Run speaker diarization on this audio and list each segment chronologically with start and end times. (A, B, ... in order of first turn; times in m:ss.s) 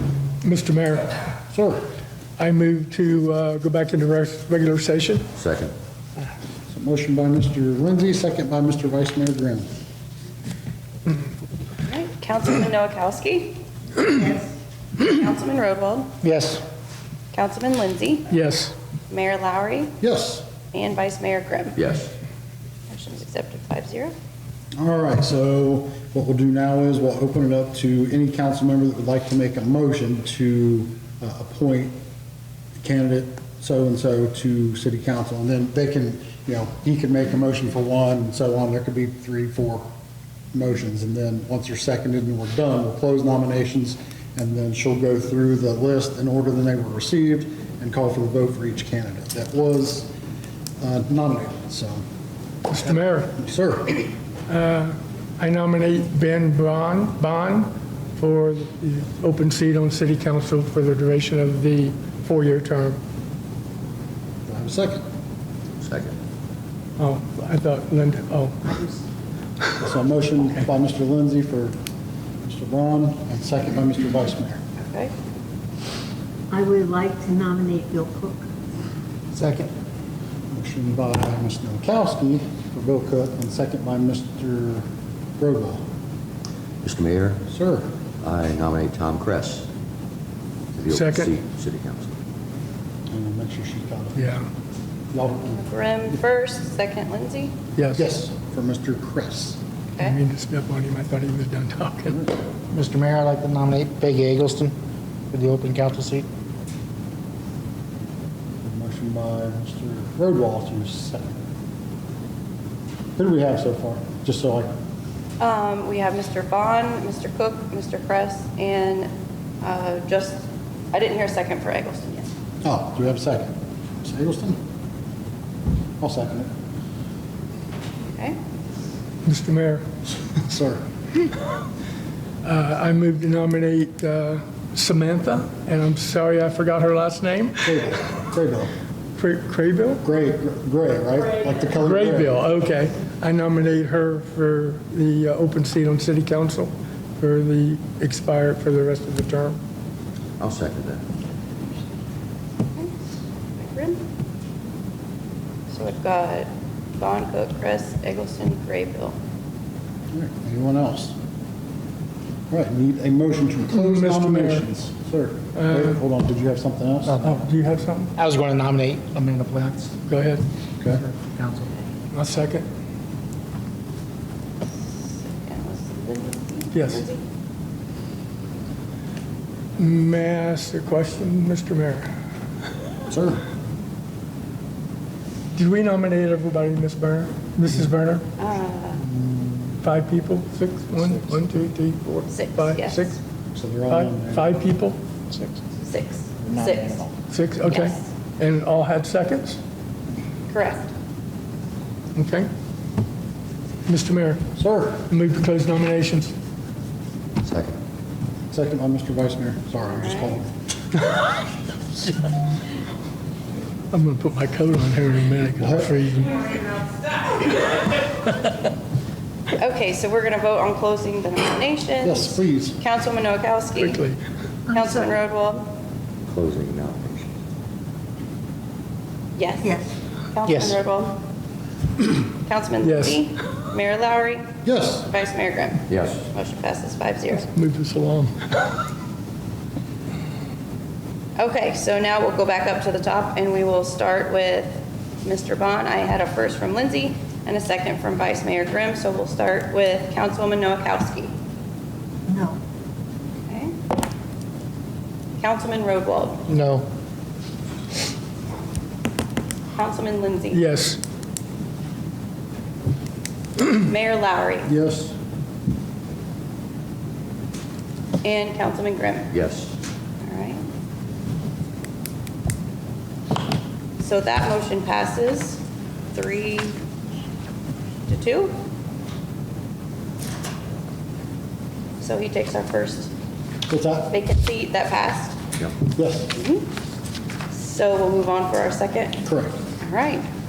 0:00.4-0:01.2 A
0:01.5-0:01.8 B
0:02.4-0:05.2 A
0:05.4-0:05.7 C
0:06.7-0:09.7 B
0:11.8-0:14.4 D
0:15.0-0:16.1 D
0:16.2-0:16.6 E
0:17.3-0:18.3 D
0:18.3-0:18.7 A
0:19.1-0:19.9 D
0:20.0-0:20.4 B
0:20.7-0:21.8 D
0:21.8-0:22.1 C
0:22.9-0:24.1 D
0:24.8-0:32.0 B
0:32.8-0:39.8 B
0:40.5-0:50.1 B
0:50.8-0:52.0 B
0:52.7-0:53.3 A
0:52.9-0:54.1 B
0:54.5-1:03.0 A
1:04.5-1:05.0 B
1:05.8-1:06.1 C
1:07.0-1:08.8 A
1:09.8-1:11.8 B
1:12.4-1:14.6 B
1:14.8-1:15.1 D
1:16.5-1:18.4 F
1:19.3-1:19.7 B
1:20.5-1:24.8 B
1:25.4-1:25.8 B
1:26.8-1:27.4 C
1:27.5-1:27.9 B
1:28.2-1:29.7 C
1:30.7-1:32.1 C
1:30.9-1:31.3 A
1:33.1-1:34.4 B
1:34.2-1:34.4 A
1:35.1-1:35.6 B
1:35.4-1:37.5 D
1:37.8-1:38.0 A
1:37.9-1:39.6 B
1:40.0-1:42.2 A
1:42.1-1:42.3 B
1:42.7-1:44.7 E
1:45.3-1:46.2 E
1:48.6-1:51.4 B
1:53.2-1:54.7 B
1:55.4-1:59.1 D
1:59.6-2:02.3 D
2:02.6-2:04.6 B
2:06.0-2:06.5 B
2:09.2-2:09.8 A
2:10.1-2:10.8 B
2:12.4-2:17.8 A
2:17.6-2:18.7 B
2:19.2-2:20.0 A
2:20.0-2:22.4 B
2:21.8-2:29.6 A
2:30.4-2:31.0 C
2:33.6-2:34.0 D
2:35.7-2:39.2 D
2:40.1-2:41.1 B
2:42.5-2:47.2 B
2:43.7-2:44.6 A
2:45.6-2:45.9 A
2:47.0-2:47.4 E
2:47.2-2:48.1 A
2:48.2-2:50.0 E
2:50.1-2:50.4 A
2:51.0-2:51.7 E
2:52.1-2:52.6 A
2:55.2-2:57.2 D
2:56.7-2:57.0 A
2:59.8-3:02.1 A
3:03.1-3:03.4 B
3:05.5-3:08.2 A
3:08.4-3:09.0 D
3:09.0-3:09.8 B
3:09.8-3:13.2 A
3:12.3-3:13.1 D
3:13.5-3:14.6 B
3:13.9-3:15.0 A
3:15.8-3:17.0 D
3:16.4-3:17.1 B
3:17.3-3:19.6 A
3:17.6-3:18.1 D
3:20.5-3:20.9 D
3:22.2-3:22.5 A
3:23.9-3:24.4 A
3:24.6-3:25.0 B
3:25.1-3:26.3 A
3:27.4-3:27.7 C
3:28.5-3:30.5 B
3:29.8-3:30.4 D
3:33.9-3:36.5 A
3:35.6-3:36.0 B
3:39.5-3:44.0 D
3:42.0-3:42.8 B
3:43.7-3:44.2 A
3:44.7-3:45.7 D
3:46.3-3:47.3 C
3:49.3-3:49.8 D
3:50.3-3:51.2 D
3:50.4-3:50.8 E
3:52.4-3:54.5 D
3:52.8-3:53.2 A
3:54.6-3:55.1 B
3:55.0-3:57.5 D
3:55.9-3:56.2 C
3:57.4-3:58.5 A
4:01.4-4:11.3 D
4:12.3-4:12.6 F
4:13.4-4:13.7 D
4:15.4-4:16.5 D
4:16.5-4:16.8 A
4:19.7-4:20.7 D
4:20.5-4:21.0 A
4:23.7-4:24.7 D
4:24.6-4:25.1 B
4:28.2-4:29.3 D
4:29.3-4:29.7 C
4:30.2-4:30.6 D
4:34.0-4:35.6 D
4:36.1-4:36.8 D
4:38.1-4:38.5 D
4:42.0-4:43.1 D
4:43.7-4:44.1 B
4:44.1-4:45.4 D
4:45.9-4:46.3 B
4:46.3-4:46.6 D
4:47.5-4:49.2 D
4:49.2-4:49.6 B
4:49.8-4:50.2 D